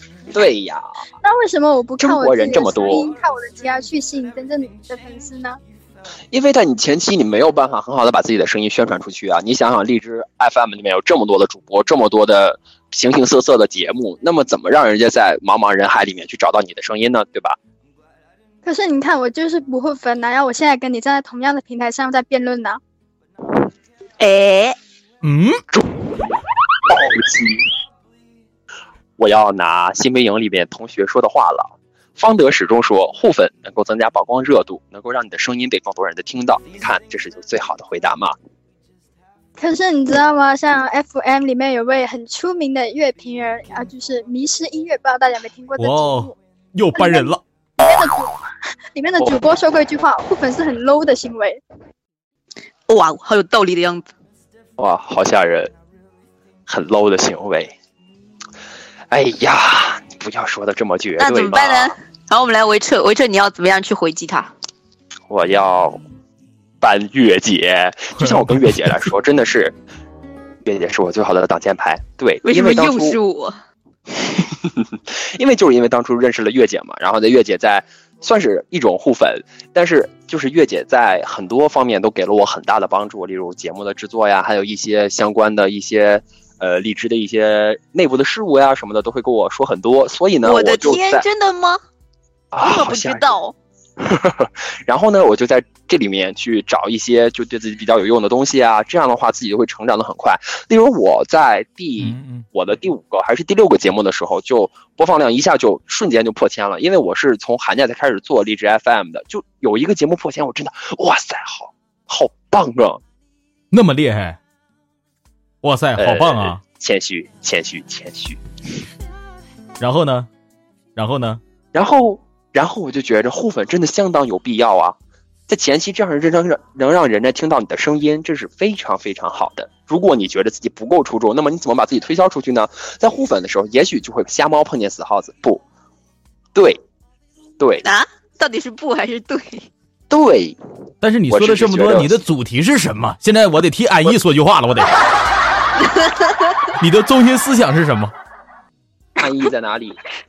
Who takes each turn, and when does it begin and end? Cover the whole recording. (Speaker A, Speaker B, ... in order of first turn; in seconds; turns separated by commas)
Speaker A: 0.3-0.9, Speaker B: 1.2-5.6, Speaker A: 2.0-3.1, Speaker A: 6.3-17.6, Speaker B: 18.6-22.8, Speaker C: 24.2-24.8, Speaker D: 25.2-25.6, Speaker A: 25.7-26.0, Speaker A: 26.9-27.6, Speaker A: 29.2-38.3, Speaker B: 39.6-46.3, Speaker D: 45.8-47.4, Speaker B: 46.9-48.4, Speaker B: 48.9-51.6, Speaker C: 52.9-54.1, Speaker A: 54.8-55.7, Speaker A: 56.7-57.7, Speaker A: 59.1-61.9, Speaker C: 61.2-64.5, Speaker A: 65.3-66.0, Speaker A: 66.8-69.7, Speaker A: 70.6-73.2, Speaker C: 72.4-73.6, Speaker A: 74.1-91.2, Speaker C: 90.4-91.8, Speaker A: 92.5-93.3, Speaker C: 92.6-93.5, Speaker A: 94.0-113.0, Speaker D: 102.0-102.4, Speaker D: 113.7-114.4, Speaker D: 115.6-116.6, Speaker A: 116.0-118.4, Speaker D: 119.8-120.3, Speaker D: 121.0-121.4, Speaker A: 121.7-125.0, Speaker A: 125.5-135.6, Speaker A: 136.5-136.8, Speaker A: 137.6-137.8, Speaker C: 137.8-139.7, Speaker A: 140.1-140.6, Speaker D: 141.0-144.9, Speaker A: 141.3-142.2, Speaker C: 145.8-146.4, Speaker D: 146.8-148.1, Speaker A: 149.2-150.0